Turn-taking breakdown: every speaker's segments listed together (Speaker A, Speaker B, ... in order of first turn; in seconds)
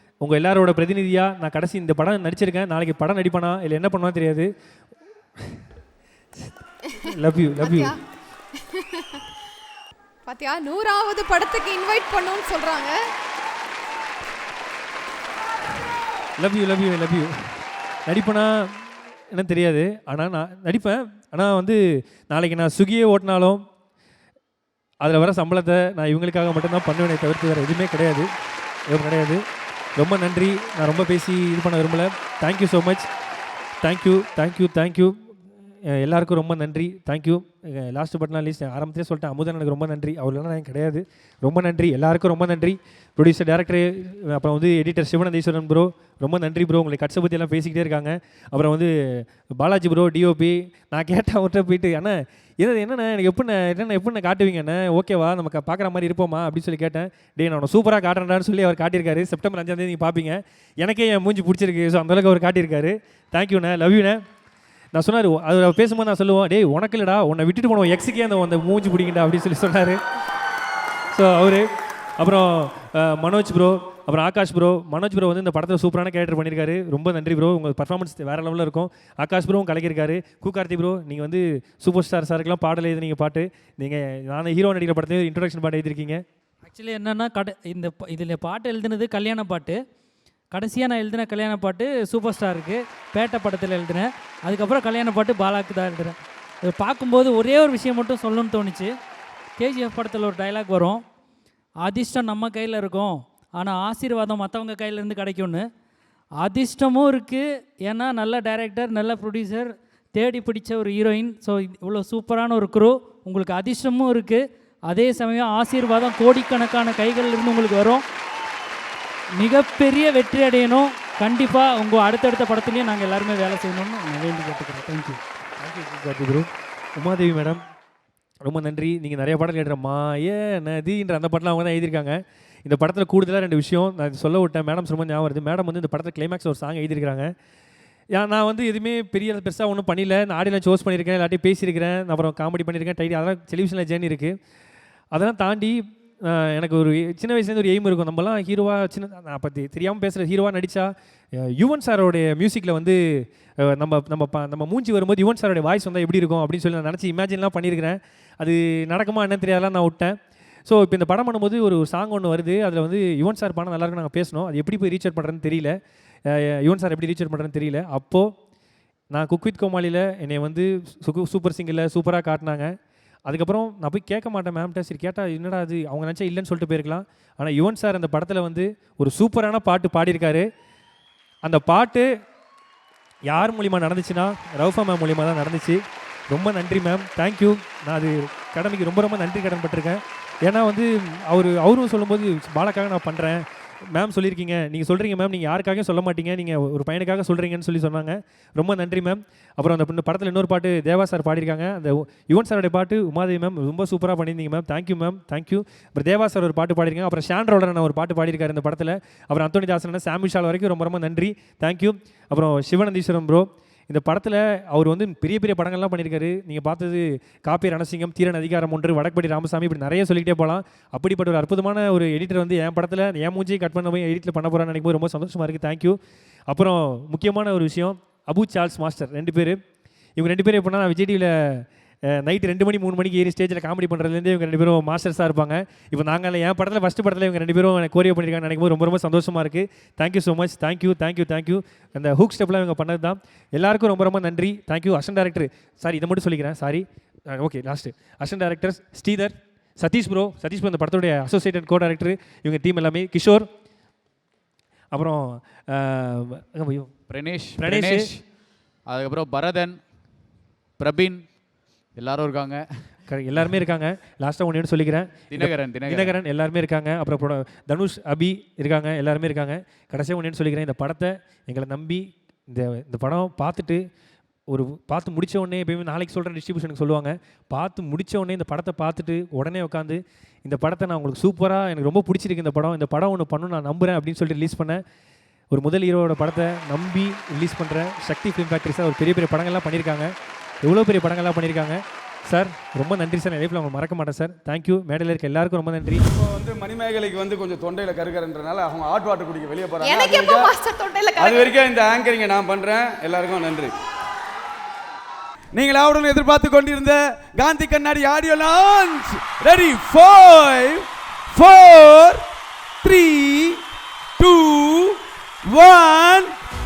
Speaker A: 0.2-4.5, 7.0-7.9, 16.4-17.3, 18.1-18.7, 19.3-23.6, 25.0-28.3, 28.9-29.4, 30.0-33.1, 33.8-35.2, 35.9-64.2, 64.9-70.0, 71.1-71.7, 72.2-86.2, 125.6-127.6, 128.4-137.3, 138.1-144.4, 145.1-165.8, 166.3-168.3, 169.1-172.8, 173.3-180.5, 181.4-182.1, 183.3-185.8, 186.3-229.6, 230.2-253.5, 254.9-256.9, 257.6-258.1, 263.1-273.8, 274.5-284.8, 285.5-290.1, 290.6-296.0
Speaker B: 6.9-8.0, 8.6-9.2, 10.3-12.9, 299.8-301.6
Speaker C: 86.7-89.8, 90.5-98.9, 99.6-101.0, 101.8-105.7, 106.4-118.0, 119.4-125.2
Speaker D: 257.1-259.9, 260.8-261.4, 261.9-262.9, 265.3-266.1
Speaker E: 296.1-300.5, 301.2-303.7, 305.5-312.2, 312.8-313.6, 314.2-315.0, 315.5-316.3